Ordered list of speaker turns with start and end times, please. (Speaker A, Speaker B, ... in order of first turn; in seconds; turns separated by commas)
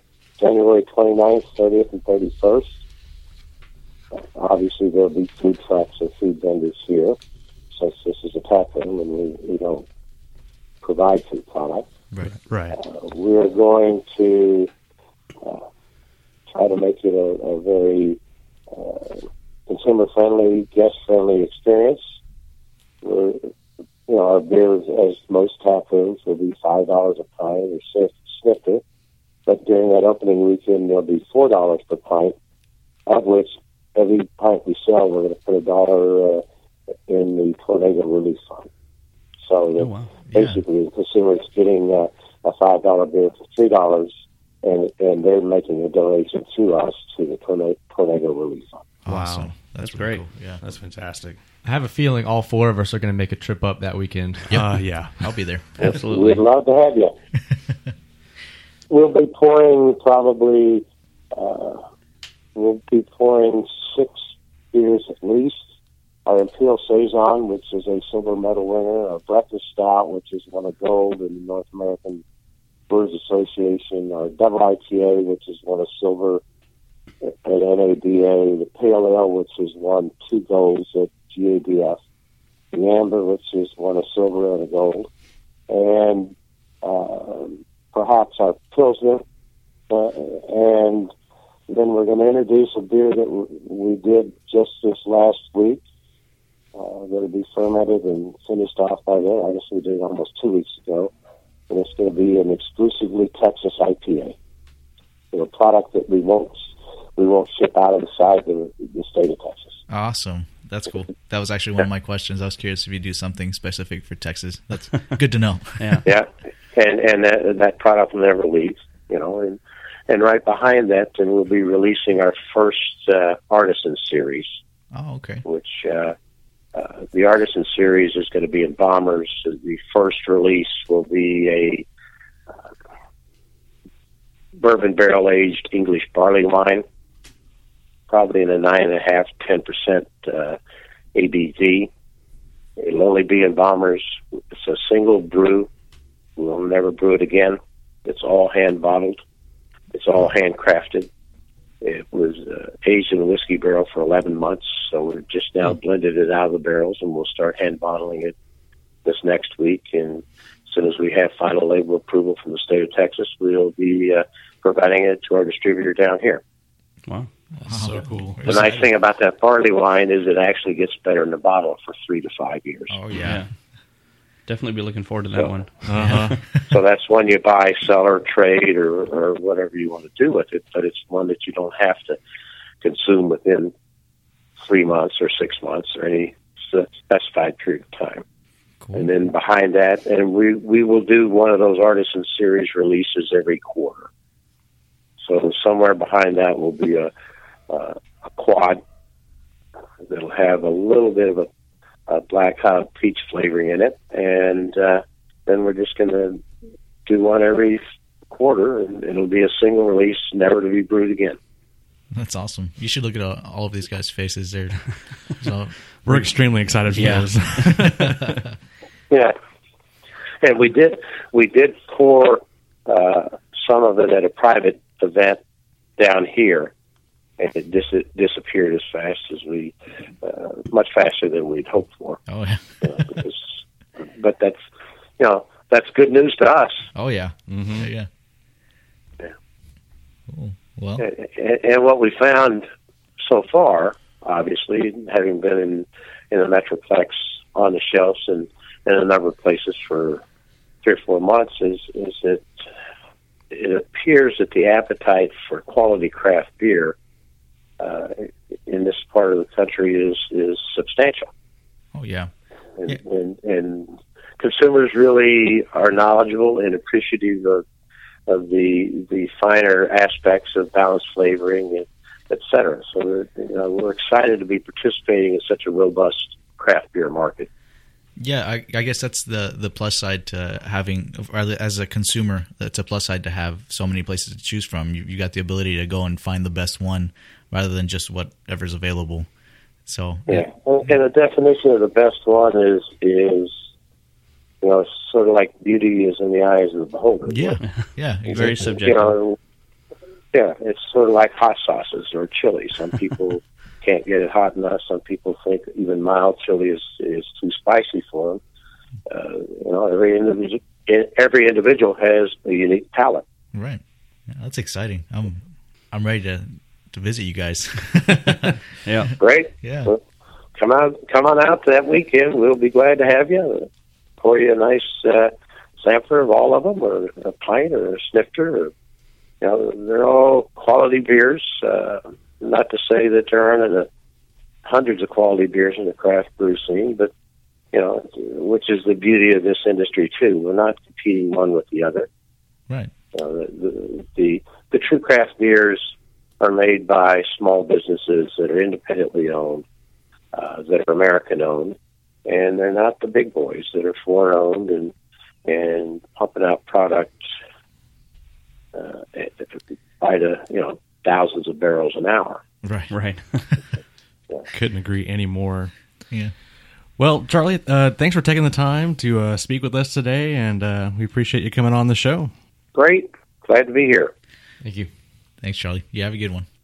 Speaker A: 0.4-2.8, Speaker A: 4.1-7.2, Speaker A: 7.7-9.8, Speaker A: 10.8-11.8, Speaker B: 12.2-12.8, Speaker A: 12.7-14.7, Speaker A: 16.5-18.2, Speaker A: 18.7-22.0, Speaker A: 23.0-23.5, Speaker A: 24.1-28.8, Speaker A: 29.5-32.3, Speaker A: 33.0-36.4, Speaker A: 37.1-38.7, Speaker A: 39.4-44.1, Speaker C: 39.8-40.1, Speaker D: 40.3-40.6, Speaker A: 44.6-48.9, Speaker D: 49.0-50.6, Speaker B: 49.1-49.5, Speaker C: 49.8-50.2, Speaker B: 50.6-51.4, Speaker E: 51.6-54.6, Speaker B: 54.5-55.3, Speaker D: 55.2-55.6, Speaker C: 55.8-56.4, Speaker A: 55.8-57.1, Speaker A: 58.9-61.8, Speaker A: 62.5-64.2, Speaker A: 64.7-65.6, Speaker A: 66.2-72.2, Speaker A: 72.9-76.4, Speaker A: 77.2-82.0, Speaker A: 82.7-85.1, Speaker A: 85.7-89.2, Speaker A: 89.9-91.1, Speaker A: 91.7-95.8, Speaker A: 96.7-101.1, Speaker A: 101.7-104.3, Speaker A: 105.3-106.6, Speaker A: 107.2-109.8, Speaker D: 109.9-116.0, Speaker C: 115.8-116.0, Speaker A: 116.0-124.5, Speaker D: 124.9-125.4, Speaker A: 125.4-126.1, Speaker A: 126.7-131.8, Speaker A: 134.6-136.8, Speaker A: 138.1-140.6, Speaker A: 141.1-141.9, Speaker A: 142.8-145.7, Speaker A: 146.4-149.2, Speaker A: 149.9-151.1, Speaker A: 151.8-158.3, Speaker A: 159.0-166.4, Speaker D: 167.6-168.8, Speaker B: 167.7-168.7, Speaker A: 168.4-172.9, Speaker D: 172.9-173.4, Speaker C: 173.2-173.5, Speaker C: 174.5-176.3, Speaker B: 175.8-176.4, Speaker A: 176.7-182.2, Speaker A: 182.8-183.7, Speaker A: 184.6-188.2, Speaker D: 188.8-189.1, Speaker A: 188.9-194.1, Speaker A: 195.2-197.1, Speaker A: 197.7-198.8, Speaker A: 200.1-201.5, Speaker A: 202.1-206.4, Speaker A: 207.1-211.4, Speaker D: 212.1-216.3, Speaker B: 216.0-218.4, Speaker C: 216.9-217.3, Speaker D: 218.0-218.3, Speaker A: 219.1-219.3, Speaker A: 220.4-225.4, Speaker A: 226.0-226.7, Speaker A: 227.4-232.2, Speaker D: 232.3-232.8, Speaker A: 232.8-233.4, Speaker A: 234.0-234.6, Speaker A: 235.2-236.8, Speaker D: 236.9-238.1, Speaker B: 237.5-237.9, Speaker D: 240.3-241.0, Speaker A: 241.0-242.6, Speaker A: 243.2-250.2, Speaker A: 250.8-252.5, Speaker A: 253.5-256.9, Speaker A: 257.8-261.3, Speaker D: 261.9-262.3, Speaker A: 262.8-267.6, Speaker A: 268.3-277.5, Speaker D: 278.2-289.3, Speaker D: 289.9-290.5, Speaker A: 290.3-293.5, Speaker A: 294.6-297.6, Speaker D: 297.3-298.8, Speaker C: 297.6-299.1, Speaker A: 298.8-299.4, Speaker A: 300.3-308.4, Speaker A: 309.1-313.2, Speaker D: 313.5-318.6, Speaker C: 318.8-319.1, Speaker A: 319.2-320.0, Speaker D: 319.6-319.9, Speaker A: 320.6-323.7, Speaker A: 324.2-328.7, Speaker A: 329.4-333.9, Speaker A: 334.6-337.1, Speaker A: 337.7-342.1, Speaker A: 343.1-349.6, Speaker A: 350.3-354.9, Speaker A: 355.4-357.2, Speaker A: 358.7-359.5, Speaker A: 360.0-362.4, Speaker D: 362.6-362.9, Speaker C: 362.9-363.4, Speaker B: 364.5-365.7, Speaker B: 367.0-372.3, Speaker A: 372.7-374.1, Speaker E: 374.6-374.9, Speaker D: 375.4-376.4